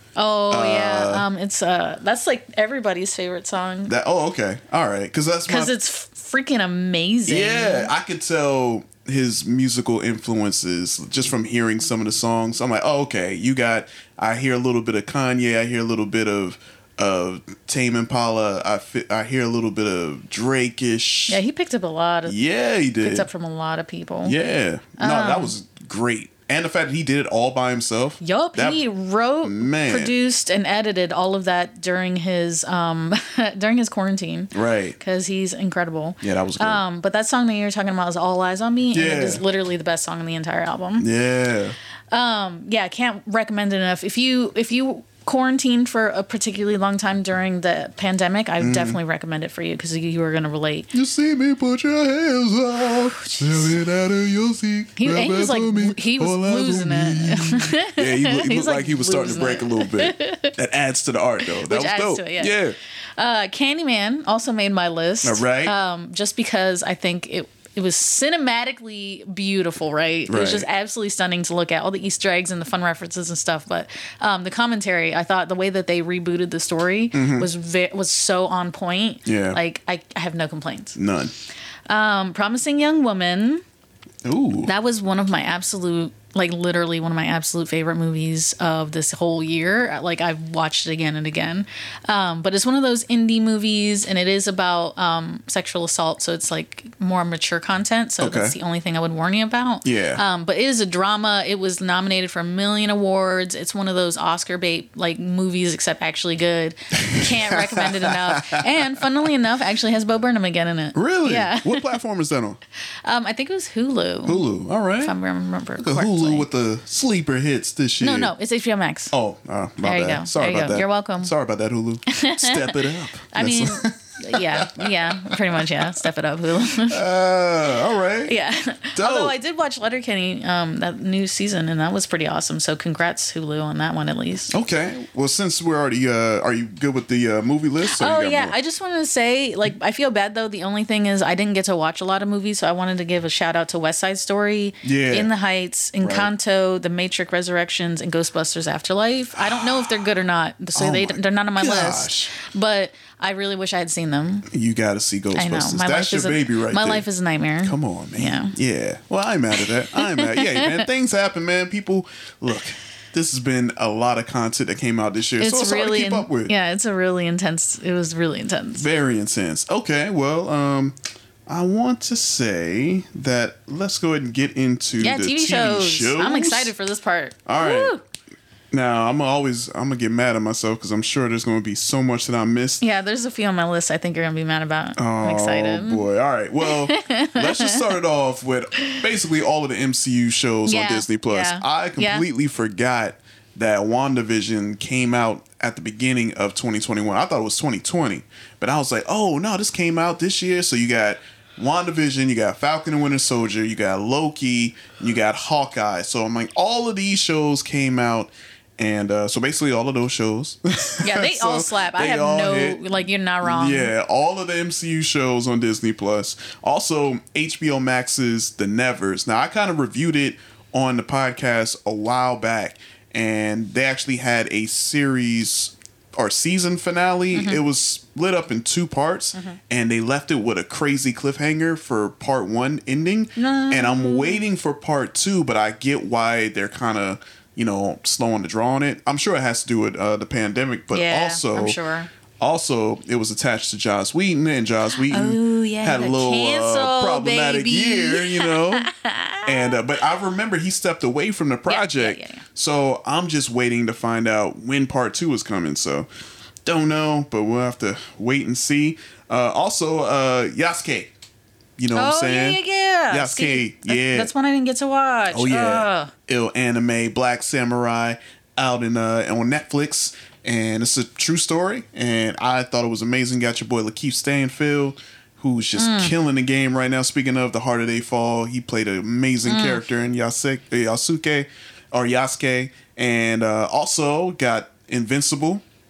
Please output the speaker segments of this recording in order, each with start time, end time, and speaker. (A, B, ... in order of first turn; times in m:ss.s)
0:00.2-0:03.9 A
0:00.5-0:01.3 B
0:03.9-0:05.7 B
0:05.5-0:07.9 A
0:07.3-0:21.4 B
0:21.3-0:22.4 A
0:22.3-0:23.3 B
0:23.0-0:24.4 A
0:24.2-0:28.8 B
0:25.0-0:25.5 A
0:28.2-0:41.1 A
0:29.4-0:30.1 B
0:34.5-0:35.0 B
0:36.2-0:36.8 B
0:38.9-0:39.4 B
0:41.0-0:41.8 B
0:42.1-0:50.9 A
0:48.6-0:49.0 B
0:50.9-1:02.8 B
0:53.1-0:53.8 A
0:55.0-1:00.5 A
1:01.6-1:02.6 A
1:03.2-1:21.0 A
1:05.2-1:05.8 B
1:10.3-1:10.7 B
1:17.1-1:17.5 B
1:19.2-1:19.6 B
1:21.0-1:21.3 B
1:21.9-1:23.6 A
1:24.2-1:24.7 B
1:24.6-1:51.8 A
1:38.2-1:38.6 B
1:39.8-1:40.2 B
1:47.1-1:49.0 B
1:50.9-1:52.6 B
1:53.0-1:54.4 A
1:54.2-1:55.2 B
1:55.0-1:56.5 A
1:55.8-1:58.3 B
1:58.0-1:59.1 A
1:59.1-2:05.8 B
1:59.8-2:01.3 A
2:02.1-2:02.8 A
2:03.3-2:07.0 A
2:06.8-2:08.3 B
2:08.3-2:14.5 A
2:09.0-2:09.4 B
2:14.5-2:18.6 B
2:17.9-2:34.5 A
2:24.8-2:25.3 B
2:26.0-2:26.3 B
2:29.4-2:30.1 B
2:30.8-2:32.3 B
2:34.5-2:37.0 B
2:35.4-2:38.6 A
2:37.6-2:46.5 B
2:40.0-2:40.9 A
2:45.4-2:48.9 A
2:48.8-2:56.7 B
2:55.0-2:58.0 A
2:57.5-2:58.0 B
2:58.7-3:02.8 B
3:02.8-3:06.0 A
3:05.0-3:32.9 B
3:06.6-3:07.9 A
3:10.7-3:12.2 A
3:31.0-3:33.9 A
3:33.4-4:01.8 B
3:47.3-3:47.6 A
3:53.4-3:54.4 A
4:00.9-4:02.1 A
4:02.4-4:08.9 B
4:05.1-4:09.8 A
4:09.4-4:16.1 B
4:11.7-4:12.4 A
4:16.6-4:21.1 B
4:21.8-4:24.3 B
4:21.9-4:26.1 A
4:25.3-4:45.6 B
4:35.8-4:36.1 A
4:39.4-4:39.8 A